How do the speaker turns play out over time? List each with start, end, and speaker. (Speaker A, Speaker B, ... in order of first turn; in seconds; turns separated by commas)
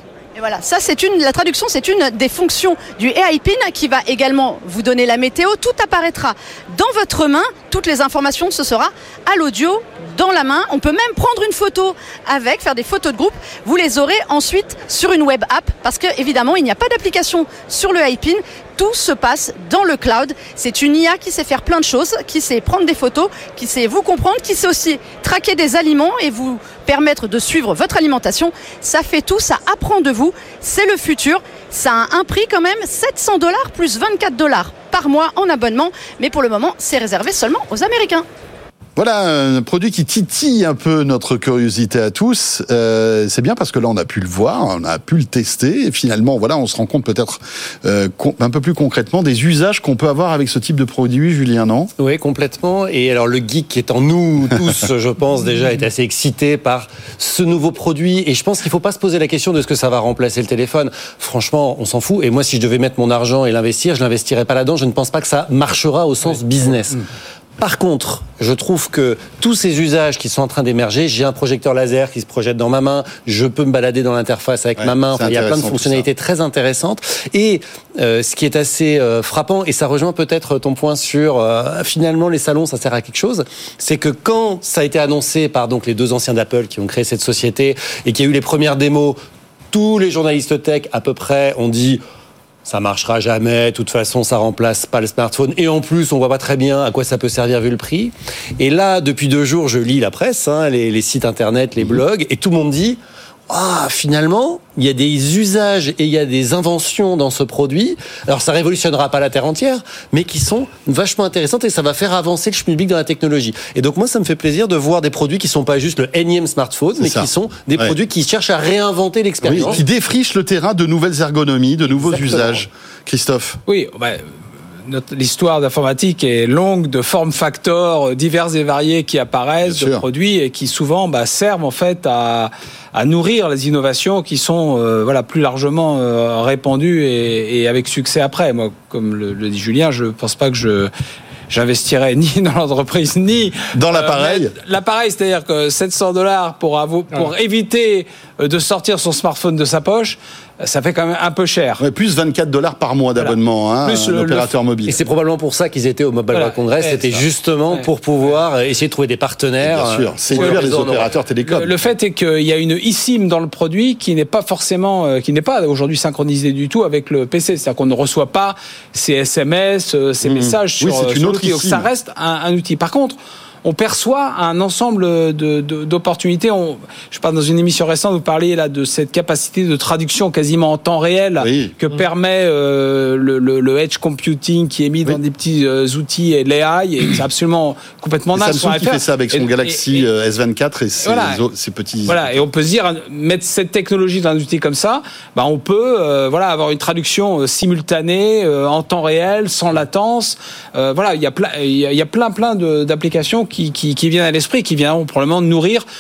Speaker A: 0.4-38.3, Speaker B: 39.0-51.9, Speaker C: 52.0-67.0, Speaker C: 67.6-89.2, Speaker B: 74.8-76.1, Speaker C: 89.7-92.0, Speaker C: 92.7-119.8, Speaker B: 117.0-118.0, Speaker B: 119.4-123.6, Speaker D: 123.7-124.2, Speaker D: 124.9-140.9, Speaker B: 129.7-130.0, Speaker D: 141.5-151.8, Speaker B: 143.7-144.5, Speaker B: 151.8-155.0, Speaker D: 153.2-154.5, Speaker C: 154.9-161.1, Speaker D: 156.3-157.2, Speaker B: 159.6-161.7, Speaker D: 160.3-190.1, Speaker B: 170.2-171.9, Speaker B: 181.4-181.7, Speaker B: 188.3-192.5, Speaker D: 191.0-191.4, Speaker D: 192.1-205.8